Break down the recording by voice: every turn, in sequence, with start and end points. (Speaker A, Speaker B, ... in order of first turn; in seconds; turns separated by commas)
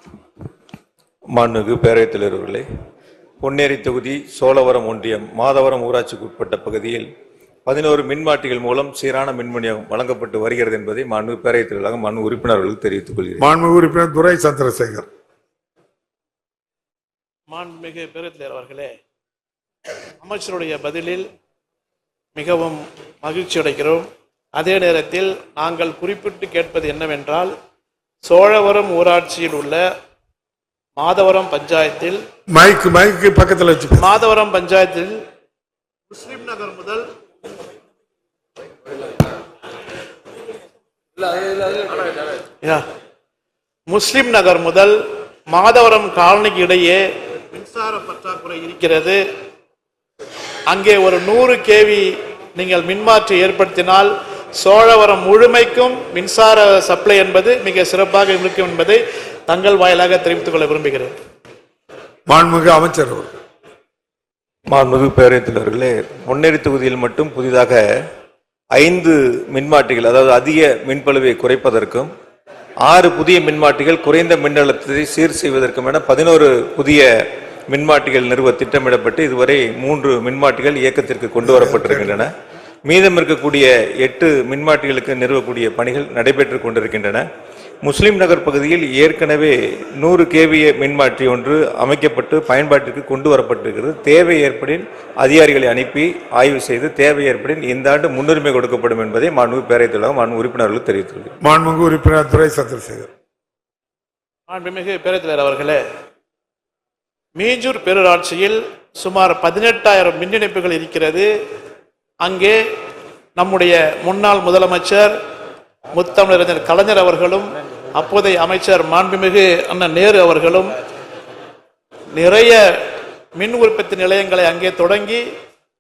Speaker A: 1.3-2.6, Speaker A: 3.4-7.1, Speaker A: 7.7-13.4, Speaker B: 13.4-15.1, Speaker C: 17.5-18.9, Speaker C: 20.2-21.2, Speaker C: 22.4-24.0, Speaker C: 24.6-27.5, Speaker C: 28.2-29.8, Speaker C: 31.0-32.2, Speaker B: 32.5-34.2, Speaker C: 34.0-35.1, Speaker C: 36.1-37.0, Speaker C: 43.9-45.0, Speaker C: 45.5-47.0, Speaker C: 47.5-49.2, Speaker C: 50.7-61.1, Speaker B: 62.3-63.4, Speaker A: 64.7-67.8, Speaker A: 68.8-72.1, Speaker A: 72.8-77.1, Speaker A: 77.7-82.3, Speaker B: 81.4-82.2, Speaker A: 82.9-87.2, Speaker A: 87.8-101.3, Speaker B: 101.4-103.1, Speaker C: 104.5-105.8, Speaker C: 107.4-111.3, Speaker C: 112.2-112.6, Speaker C: 113.4-115.1, Speaker C: 115.9-120.8, Speaker C: 122.1-122.6, Speaker C: 123.4-125.2